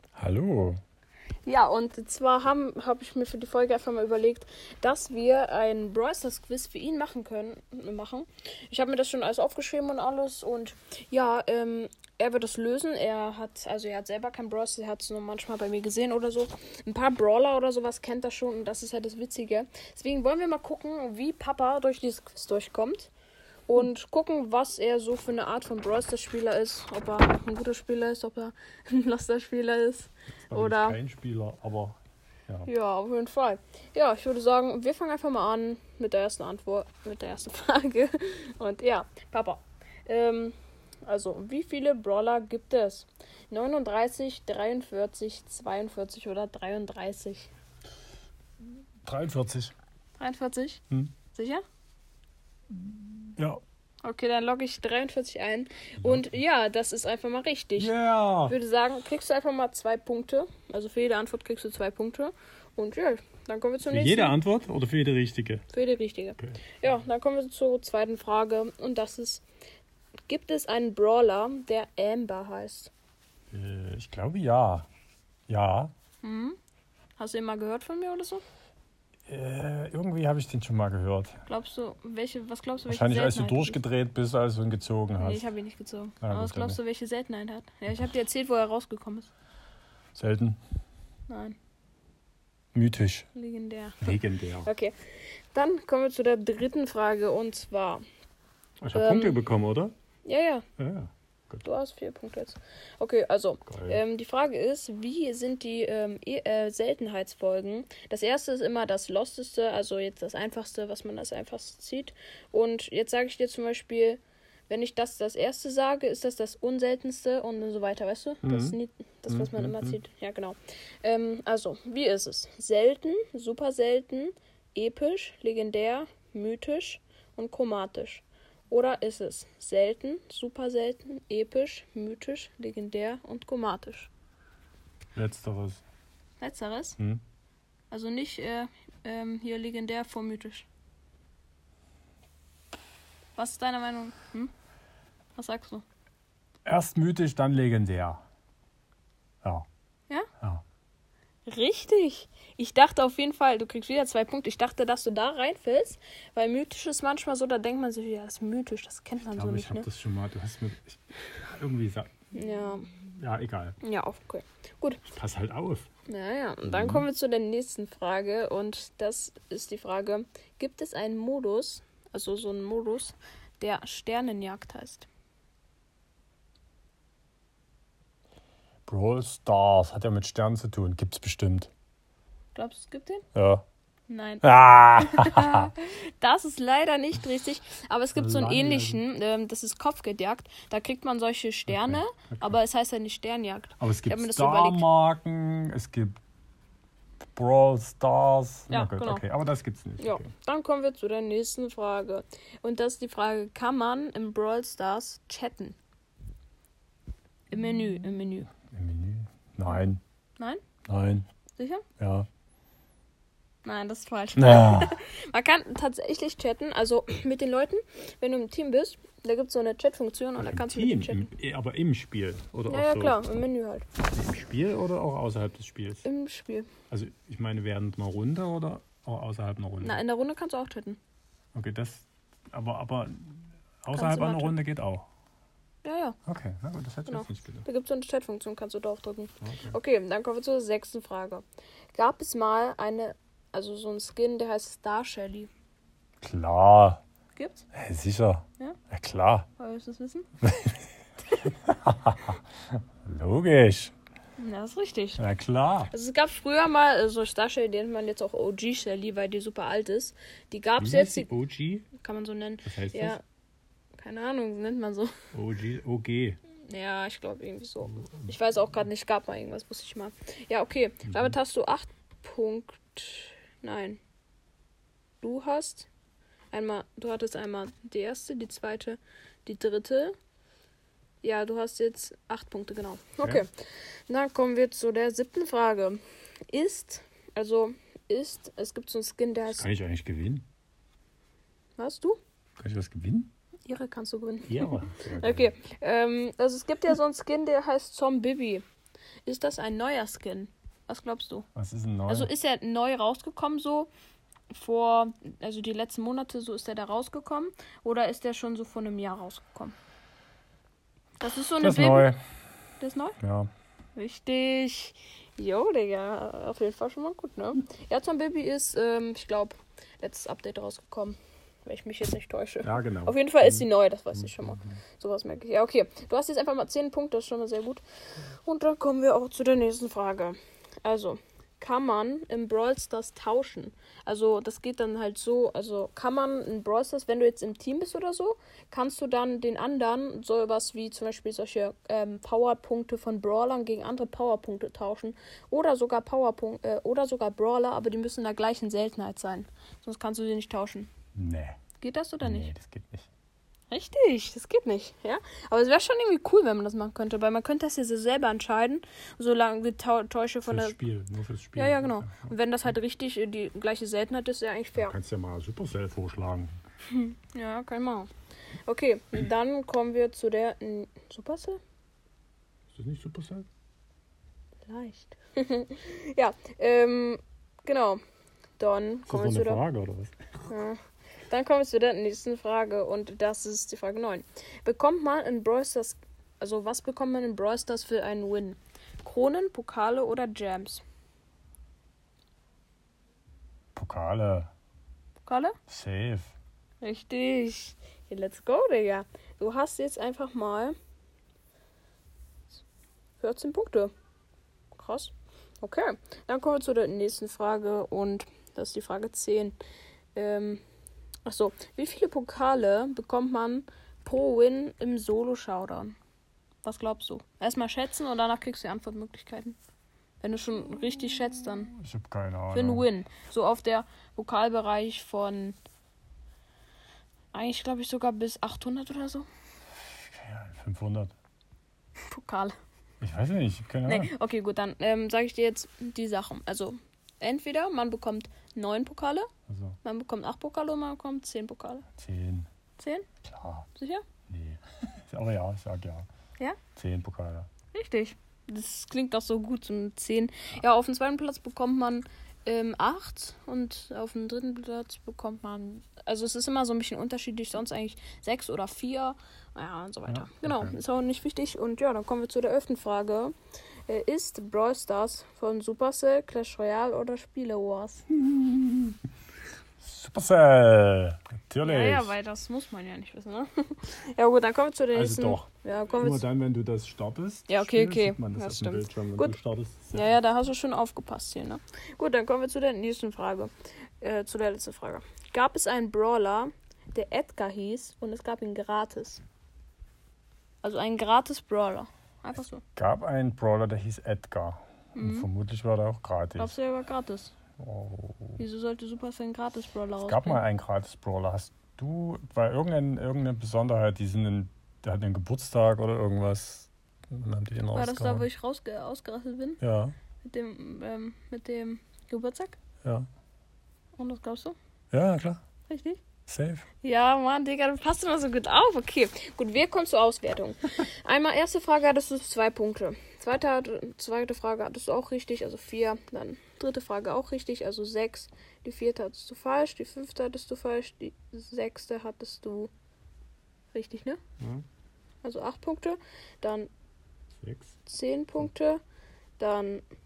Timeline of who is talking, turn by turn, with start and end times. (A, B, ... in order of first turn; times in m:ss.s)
0:00.2-0:00.8 A
0:01.4-0:23.1 B
0:23.7-0:31.0 B
0:30.4-0:32.7 A
0:32.7-0:40.5 B
0:41.1-0:47.5 B
0:49.0-0:49.7 A
0:50.2-0:51.6 B
0:52.7-0:53.6 A
0:54.0-0:57.9 B
0:56.0-0:56.3 A
0:57.8-0:58.6 A
0:58.4-1:04.4 B
1:03.8-1:05.6 A
1:05.7-1:09.4 B
1:10.3-1:12.9 B
1:13.5-1:14.9 A
1:15.5-1:15.9 A
1:16.2-1:16.6 B
1:17.2-1:18.4 B
1:19.3-1:21.4 A
1:21.5-1:23.8 B
1:22.9-1:25.4 A
1:25.2-1:29.3 B
1:26.2-1:26.8 A
1:30.1-1:30.6 A
1:31.3-1:31.6 B
1:32.7-1:33.3 A
1:33.3-1:34.9 B
1:34.0-1:34.7 A
1:35.5-1:38.0 B
1:38.8-1:39.9 A
1:38.9-1:39.4 B
1:40.2-1:40.6 B
1:40.8-1:41.6 A
1:41.6-2:14.1 B
1:43.7-1:44.0 A
1:58.4-1:58.8 A
1:59.3-2:00.0 A
2:15.1-2:15.8 A
2:16.4-2:17.0 B
2:17.9-2:20.7 B
2:23.4-2:24.5 B
2:25.4-2:25.8 B
2:26.6-2:28.2 A
2:31.5-2:39.9 B
2:39.3-2:42.1 A
2:42.3-2:42.9 B
2:43.0-2:43.8 A
2:43.8-2:45.0 B
2:45.0-2:45.9 A
2:46.1-2:55.0 B
2:46.6-2:47.1 A
2:58.9-3:01.7 A
3:02.5-3:03.2 B
3:03.3-3:03.6 A
3:04.1-3:14.8 B
3:04.4-3:05.7 A
3:08.1-3:09.0 A
3:11.7-3:12.6 A
3:13.8-3:16.2 A
3:17.3-3:20.3 A
3:18.7-3:19.2 B
3:20.0-3:25.8 B
3:27.5-3:28.5 B
3:28.7-3:30.0 A
3:30.9-3:31.2 A
3:31.6-3:31.8 B
3:32.0-3:32.3 A
3:33.6-3:41.3 B
3:34.4-3:35.0 A
3:40.4-3:43.2 A
3:42.7-3:43.8 B
3:44.1-3:46.0 A
3:46.0-3:46.7 B
3:46.9-3:50.0 A
3:49.8-3:51.0 B
3:51.5-3:55.1 A
3:53.9-3:54.6 B
3:55.8-3:56.2 B
3:56.2-3:57.6 A
3:57.1-4:05.5 B
3:59.4-3:59.8 A
4:06.2-4:07.0 A
4:07.3-4:07.6 B
4:07.7-4:09.5 A
4:09.6-4:10.3 B
4:10.4-4:10.8 A
4:11.4-4:13.9 A
4:14.4-4:15.2 B
4:15.2-4:15.9 A
4:15.9-4:21.3 B
4:20.8-4:21.9 A
4:21.9-4:23.2 B
4:22.6-4:23.2 A
4:24.0-4:25.1 B
4:25.3-4:26.4 A
4:26.7-4:34.0 B
4:27.9-4:28.3 A
4:31.0-4:31.3 A
4:35.2-4:35.9 B
4:36.5-4:40.1 B
4:41.2-4:43.5 B
4:43.2-4:43.4 A
4:44.1-4:46.0 B
4:46.5-4:49.7 B
4:49.5-4:50.4 A
4:51.8-4:52.2 B
4:52.6-4:53.3 A
4:53.6-4:58.6 B
4:54.5-4:55.5 A
4:59.2-5:01.5 B
5:01.5-5:02.3 A
5:02.1-5:03.9 B
5:04.5-5:09.7 B
5:11.2-5:12.1 B
5:11.6-5:12.2 A
5:12.8-5:13.2 B
5:13.2-5:13.5 A
5:14.0-5:27.8 B
5:22.6-5:24.8 A
5:28.4-5:50.9 B
5:51.2-5:51.6 A
5:51.8-5:52.5 B
5:52.2-5:53.1 A
5:53.7-6:00.8 B
6:00.4-6:02.3 A
6:01.6-6:05.0 B
6:04.7-6:06.6 A
6:06.9-6:08.1 B
6:08.6-6:11.6 B
6:12.7-6:13.5 A
6:14.7-6:18.0 B
6:18.6-6:19.6 B
6:19.1-6:20.1 A
6:20.5-6:30.8 B
6:33.7-6:34.5 A
6:35.2-6:35.6 B
6:35.7-6:36.3 A
6:36.8-6:40.8 B
6:43.2-6:43.9 B
6:44.7-6:49.5 B
6:50.1-6:50.6 B
6:51.2-6:55.9 B
6:56.6-6:59.6 B
7:00.2-7:01.7 B
7:01.7-7:02.9 A
7:02.5-7:05.6 B
7:07.3-7:09.2 B
7:10.1-7:11.1 A
7:12.1-7:12.5 B
7:13.0-7:14.1 A
7:13.9-7:19.3 B
7:19.5-7:19.8 A
7:19.8-7:21.8 B
7:22.0-7:22.5 A
7:22.8-7:23.1 B
7:23.2-7:23.7 A
7:23.7-7:24.0 B
7:24.3-7:26.1 A
7:26.8-7:27.5 A
7:27.7-7:43.3 B
7:40.1-7:40.8 A
7:43.9-7:48.0 B
7:48.1-7:49.0 A
7:49.8-7:52.1 A
7:51.6-7:56.2 B
7:54.9-7:55.4 A
7:56.0-8:00.2 A
7:57.5-7:59.3 B
7:59.9-8:09.2 B
8:10.6-8:12.6 B
8:12.8-8:16.5 A
8:14.9-8:15.3 B
8:16.4-8:17.3 B
8:17.6-8:18.4 A
8:18.4-8:20.4 B
8:20.0-8:28.2 A
8:27.7-8:29.6 B
8:29.6-8:29.9 A
8:30.2-8:32.6 B
8:34.0-8:34.6 B
8:34.9-8:35.4 A
8:35.7-8:36.0 B
8:36.3-8:36.6 A
8:36.8-8:52.7 B
8:53.7-8:54.2 B
8:54.4-8:54.6 A
8:55.2-8:56.7 B
8:57.4-8:57.7 A
8:57.9-8:58.8 B
8:59.4-8:59.8 B